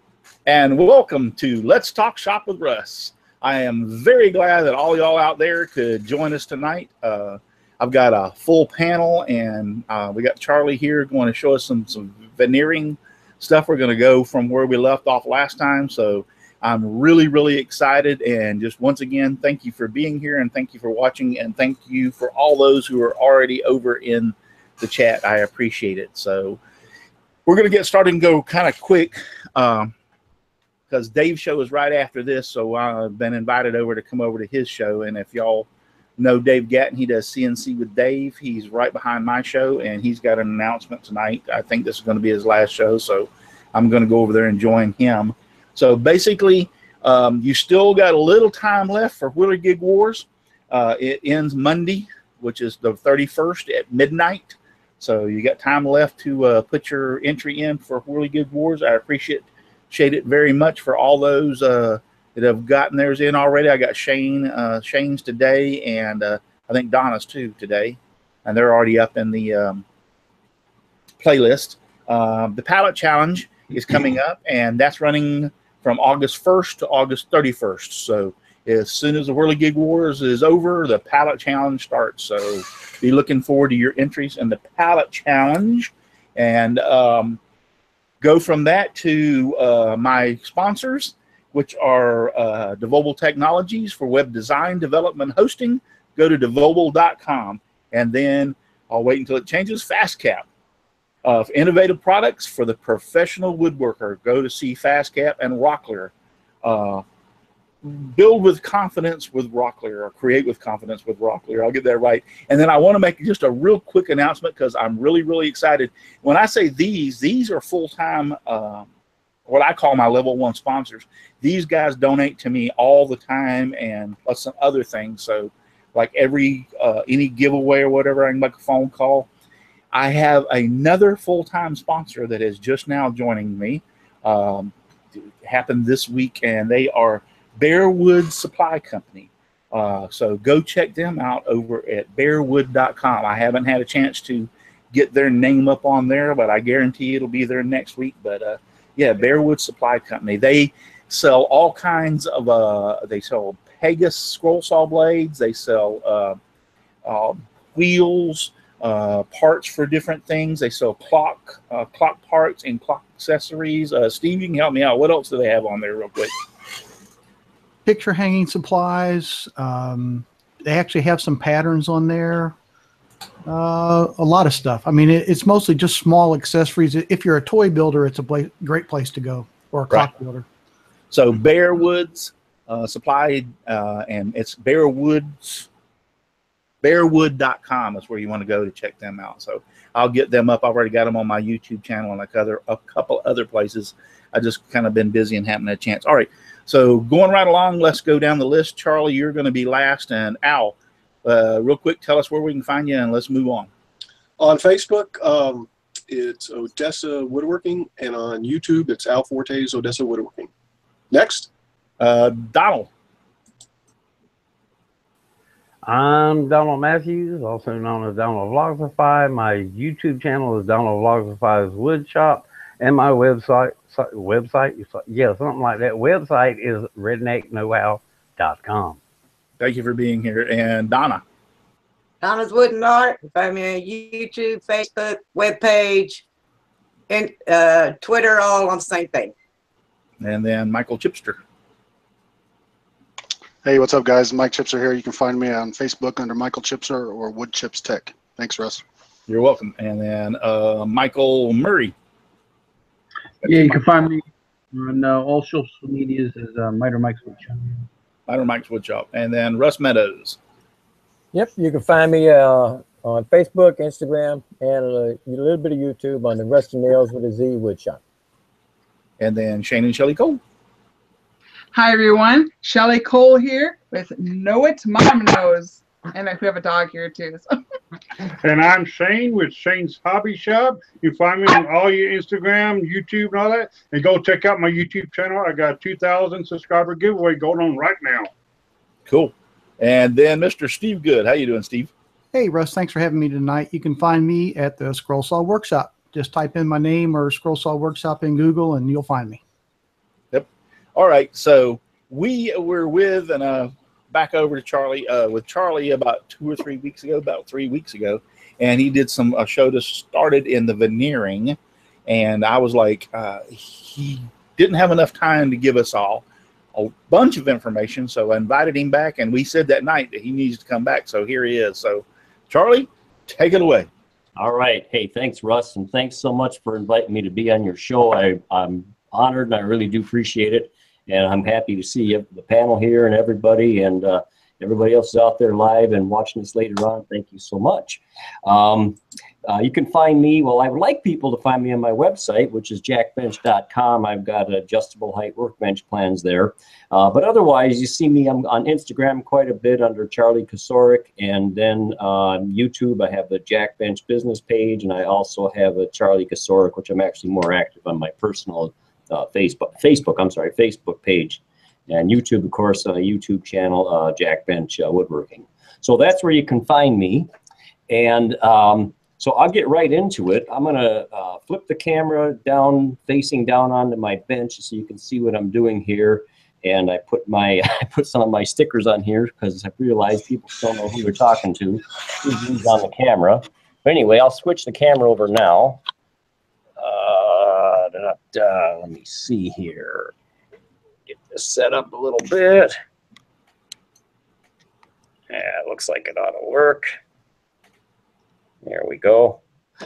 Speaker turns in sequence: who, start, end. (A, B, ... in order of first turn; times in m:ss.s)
0:00.5-0:26.6 A
0:27.5-0:29.9 A
0:30.9-1:09.8 A
1:11.2-1:27.4 A
1:28.2-1:40.5 A
1:41.2-1:46.1 A
1:46.6-1:47.0 A
1:47.8-1:58.9 A
1:59.5-2:09.3 A
2:09.9-2:14.8 A
2:15.4-2:36.4 A
2:37.0-2:46.3 A
2:47.9-2:52.6 B
2:53.5-3:00.4 B
3:01.1-3:05.7 A
3:06.8-3:23.7 A
3:24.4-3:30.5 C
3:31.1-3:31.5 C
3:32.0-3:32.9 A
3:35.8-3:49.0 D
3:49.6-3:51.2 A
3:52.2-3:56.2 E
3:57.1-3:59.3 E
4:00.2-4:01.4 A
4:03.6-4:08.8 F
4:09.3-4:12.0 A
4:13.4-4:17.8 G
4:18.3-4:20.4 A
4:21.3-4:28.0 H
4:29.2-4:30.4 A
4:31.7-4:37.5 I
4:38.4-4:48.3 J
4:49.1-4:51.9 A
4:52.3-4:59.4 B
5:00.3-5:23.9 A
5:24.4-6:07.3 K
6:07.9-6:25.8 K
6:26.8-6:30.1 K
6:31.1-6:32.8 K
6:35.3-6:36.9 K
6:38.6-6:39.4 K